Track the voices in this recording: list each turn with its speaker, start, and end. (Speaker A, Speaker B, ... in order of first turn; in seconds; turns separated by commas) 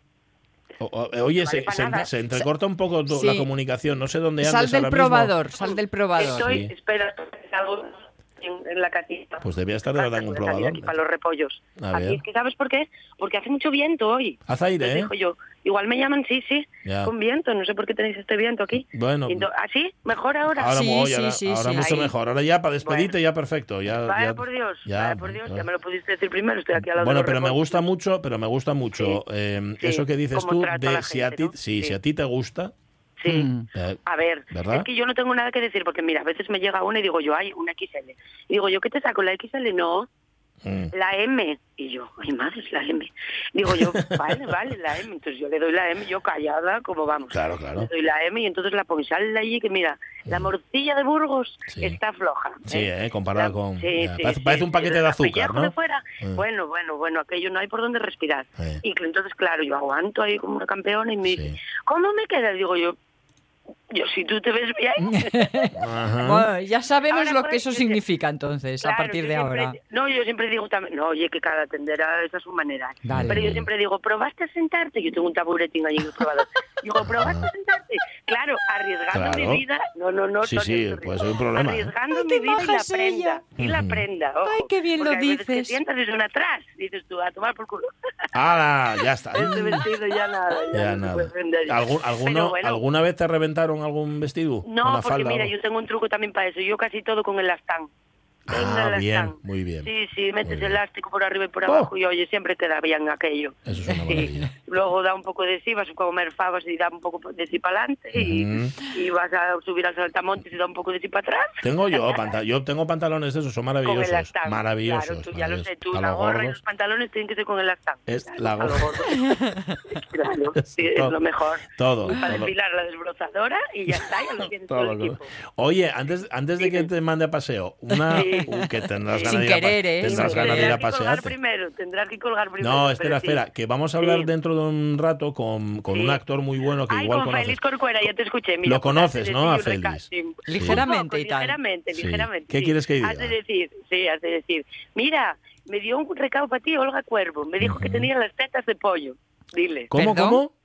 Speaker A: 0.8-5.4, Speaker B: 1.4-2.1, Speaker C: 3.1-3.5, Speaker C: 4.4-6.5, Speaker B: 5.6-20.8, Speaker A: 6.3-6.7, Speaker A: 9.4-11.0, Speaker A: 11.8-12.2, Speaker A: 14.5-15.1, Speaker A: 16.9-17.1, Speaker A: 18.7-19.5, Speaker A: 20.6-25.7, Speaker C: 20.7-21.9, Speaker B: 21.8-22.1, Speaker B: 22.8-23.1, Speaker B: 24.0-27.8, Speaker A: 26.8-32.7, Speaker B: 29.8-32.0, Speaker B: 33.2-33.5, Speaker C: 33.3-33.7, Speaker A: 33.7-34.0, Speaker B: 34.1-40.1, Speaker A: 34.5-34.9, Speaker A: 40.6-40.9, Speaker B: 40.9-63.0, Speaker A: 43.7-44.4, Speaker A: 47.3-47.9, Speaker A: 51.7-52.0, Speaker A: 52.7-56.4, Speaker A: 61.3-61.6, Speaker B: 63.9-65.6, Speaker C: 65.0-69.8, Speaker A: 65.8-66.5, Speaker B: 67.1-68.0, Speaker B: 68.8-87.9, Speaker C: 73.0-73.4, Speaker A: 73.1-73.7, Speaker A: 77.0-77.5, Speaker A: 79.1-79.6, Speaker A: 80.4-81.9, Speaker C: 82.1-83.4, Speaker A: 83.6-84.0, Speaker C: 84.4-85.8, Speaker A: 88.3-89.9, Speaker B: 89.3-92.8, Speaker A: 90.7-95.5, Speaker B: 94.6-97.9, Speaker A: 98.5-99.9, Speaker B: 98.5-112.3, Speaker A: 100.4-100.8, Speaker A: 103.7-104.5, Speaker C: 103.9-104.5, Speaker A: 108.1-108.7, Speaker A: 111.6-116.6, Speaker B: 113.8-125.3, Speaker A: 118.1-119.0, Speaker C: 119.3-119.8, Speaker A: 120.6-121.2, Speaker A: 121.8-122.5, Speaker A: 124.7-131.3, Speaker B: 126.6-126.9, Speaker C: 128.1-128.5, Speaker B: 128.1-128.5, Speaker B: 129.1-129.4, Speaker C: 129.3-130.8, Speaker B: 130.0-133.4, Speaker A: 132.6-137.6, Speaker B: 134.0-134.3, Speaker B: 135.9-136.2, Speaker B: 136.9-149.9, Speaker A: 138.6-140.8, Speaker C: 140.5-141.6, Speaker A: 141.9-143.3, Speaker A: 147.6-148.1, Speaker A: 149.9-150.5, Speaker C: 149.9-150.4